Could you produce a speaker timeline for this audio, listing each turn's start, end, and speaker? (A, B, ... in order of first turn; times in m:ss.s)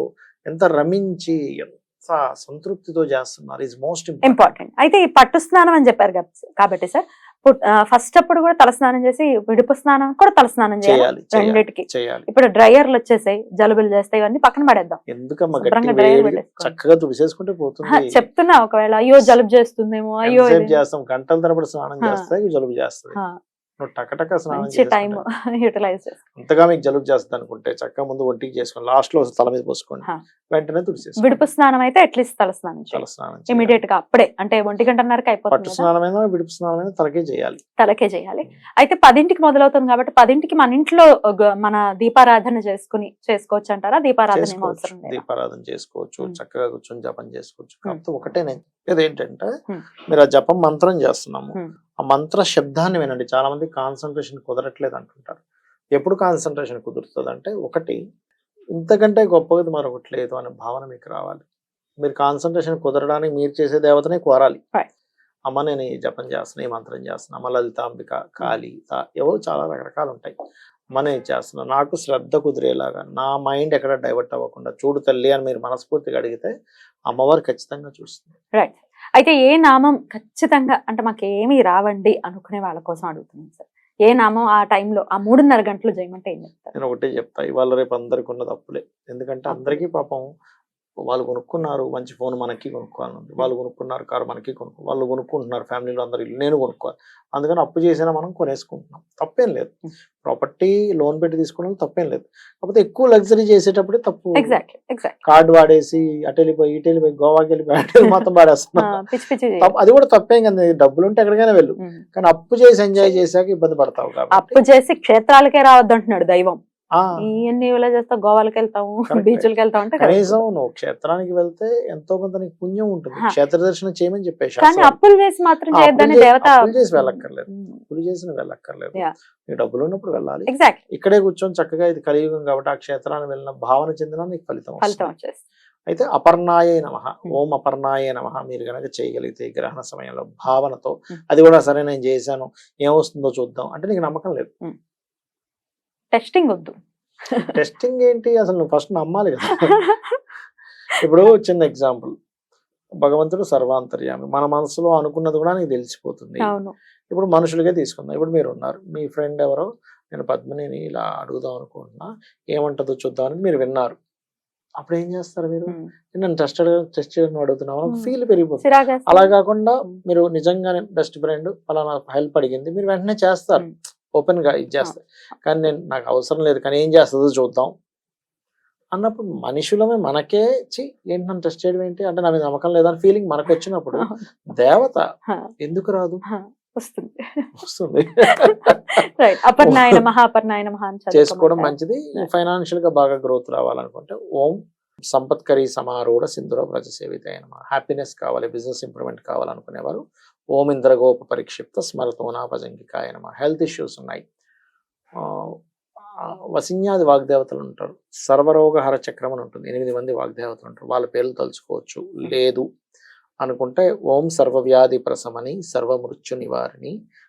0:00.5-0:04.6 A
0:04.2-0:15.0 B
0:10.8-0:12.3 A
0:15.1-0:18.2 A
0:15.5-0:16.8 B
0:17.9-0:20.8 B
0:20.3-0:23.2 A
0:22.0-0:22.3 B
0:23.8-0:25.2 A
0:24.5-0:26.2 B
0:26.4-0:31.4 A
0:31.2-0:35.9 B
0:32.9-0:33.8 A
0:35.5-0:37.6 A
0:37.8-0:45.2 B
0:44.3-0:49.5 A
0:50.1-0:55.4 A
0:56.0-0:58.0 A
0:58.8-1:01.4 A
1:02.0-1:04.6 A
1:05.5-1:10.3 A
1:11.0-1:16.5 A
1:17.1-1:18.4 A
1:18.6-1:26.7 B
1:26.7-1:30.2 A
1:29.5-1:29.8 B
1:31.1-1:44.6 A
1:44.4-1:45.2 B
1:45.3-1:49.0 A
1:48.8-1:49.7 B
1:49.6-1:54.6 A
1:54.3-1:56.6 B
1:57.2-2:00.4 B
1:59.1-1:59.5 A
2:00.0-2:05.0 A
2:04.6-2:07.8 B
2:05.7-2:15.1 A
2:10.5-2:10.8 B
2:14.8-2:15.4 B
2:15.9-2:24.5 A
2:26.1-2:26.8 B
2:27.5-2:29.7 A
2:29.5-2:30.2 B
2:31.0-2:32.1 A
2:33.0-2:36.5 A
2:36.4-2:36.7 B
2:37.1-2:44.0 A
2:44.8-2:57.7 A
2:47.9-2:49.3 B
2:59.0-3:05.0 A
3:04.0-3:04.2 B
3:05.6-3:06.2 A
3:06.3-3:07.5 B
3:07.6-3:08.9 A
3:08.2-3:08.6 B
3:09.2-3:12.3 B
3:09.6-3:10.0 A
3:11.1-3:14.6 A
3:15.1-3:20.0 A
3:20.5-3:24.2 A
3:25.2-3:25.5 A
3:26.6-3:32.6 A
3:33.4-3:36.9 A